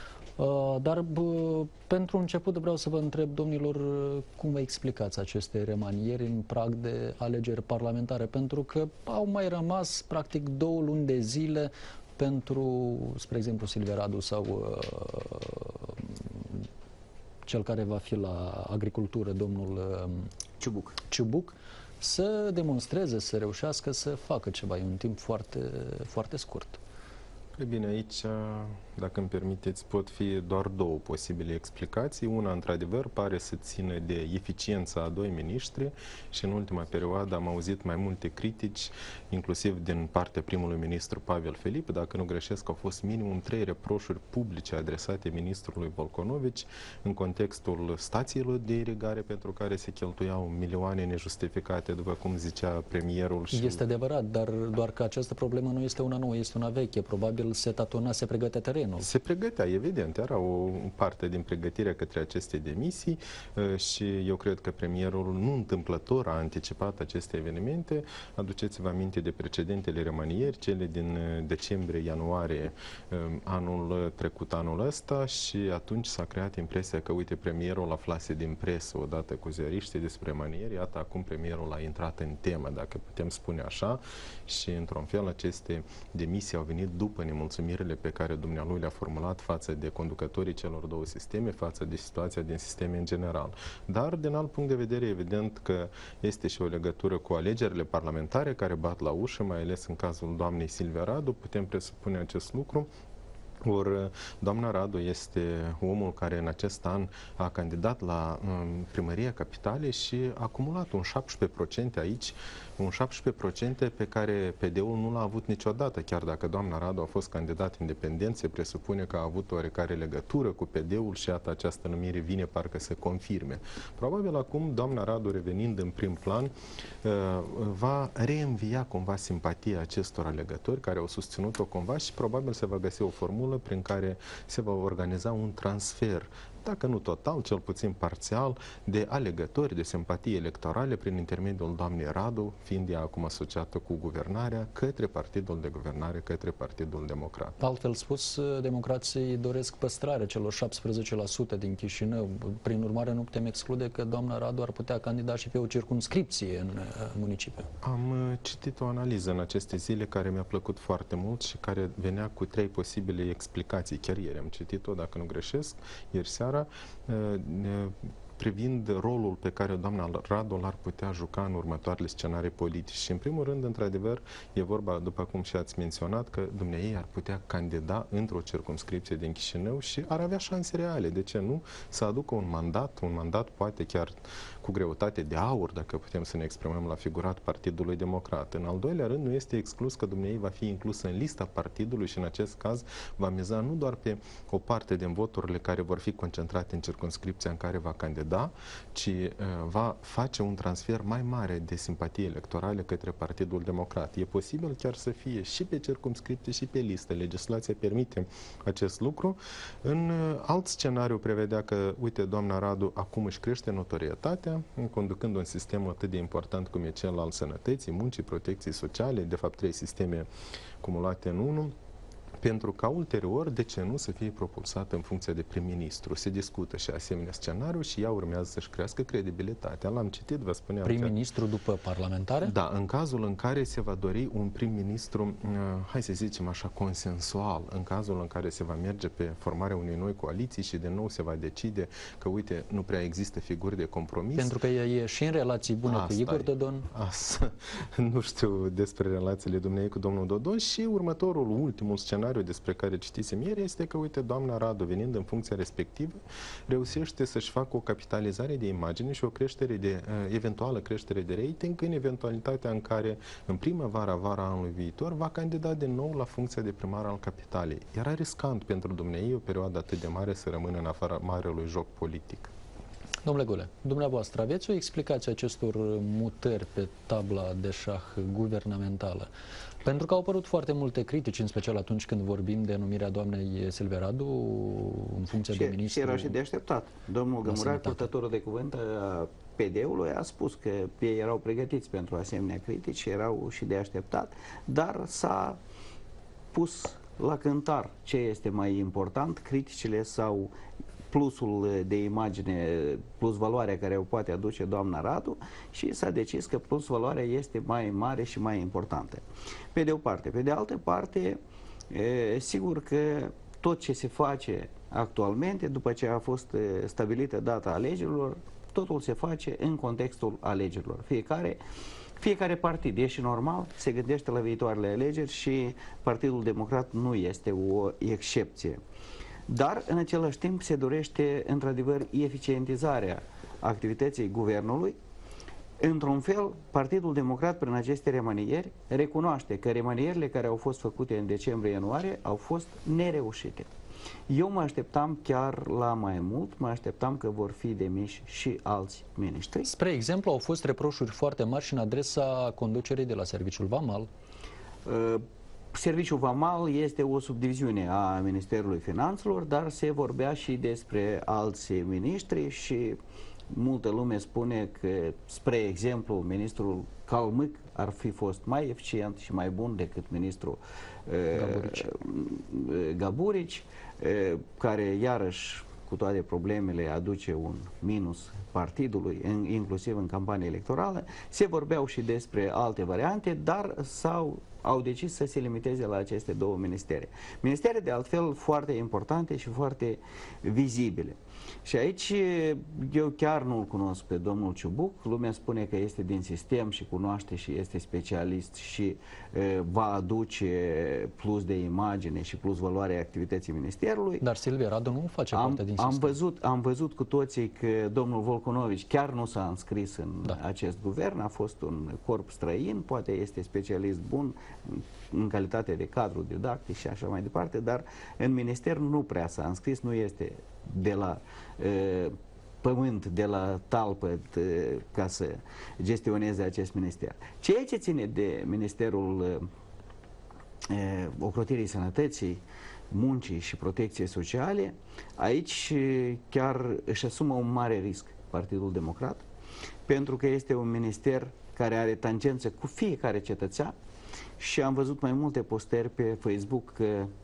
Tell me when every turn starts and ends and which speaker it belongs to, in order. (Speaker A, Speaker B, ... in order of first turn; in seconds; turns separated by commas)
Speaker A: 0.4-16.7, Speaker A: 17.5-20.3, Speaker B: 20.6-21.0, Speaker A: 21.1-26.8, Speaker C: 27.6-53.8, Speaker A: 53.5-59.1, Speaker C: 59.0-102.9, Speaker C: 103.6-126.5, Speaker C: 127.0-147.6, Speaker A: 147.6-157.7, Speaker C: 157.8-220.3, Speaker C: 220.8-221.8, Speaker C: 222.4-231.2, Speaker A: 230.8-232.5, Speaker C: 232.4-244.6, Speaker A: 244.4-246.9, Speaker C: 245.8-272.5, Speaker A: 273.2-279.3, Speaker A: 279.8-286.4, Speaker B: 285.5-295.6, Speaker A: 287.4-288.1, Speaker B: 296.5-300.5, Speaker B: 301.1-309.2, Speaker B: 309.7-321.6, Speaker B: 322.2-328.8, Speaker B: 329.5-335.0, Speaker B: 335.8-343.7, Speaker B: 344.3-349.7, Speaker A: 349.7-354.1, Speaker B: 354.9-363.0, Speaker B: 363.5-404.2, Speaker A: 371.3-371.9, Speaker A: 404.2-406.2, Speaker B: 405.3-429.5, Speaker B: 430.7-439.2, Speaker B: 439.9-443.7, Speaker B: 444.4-447.1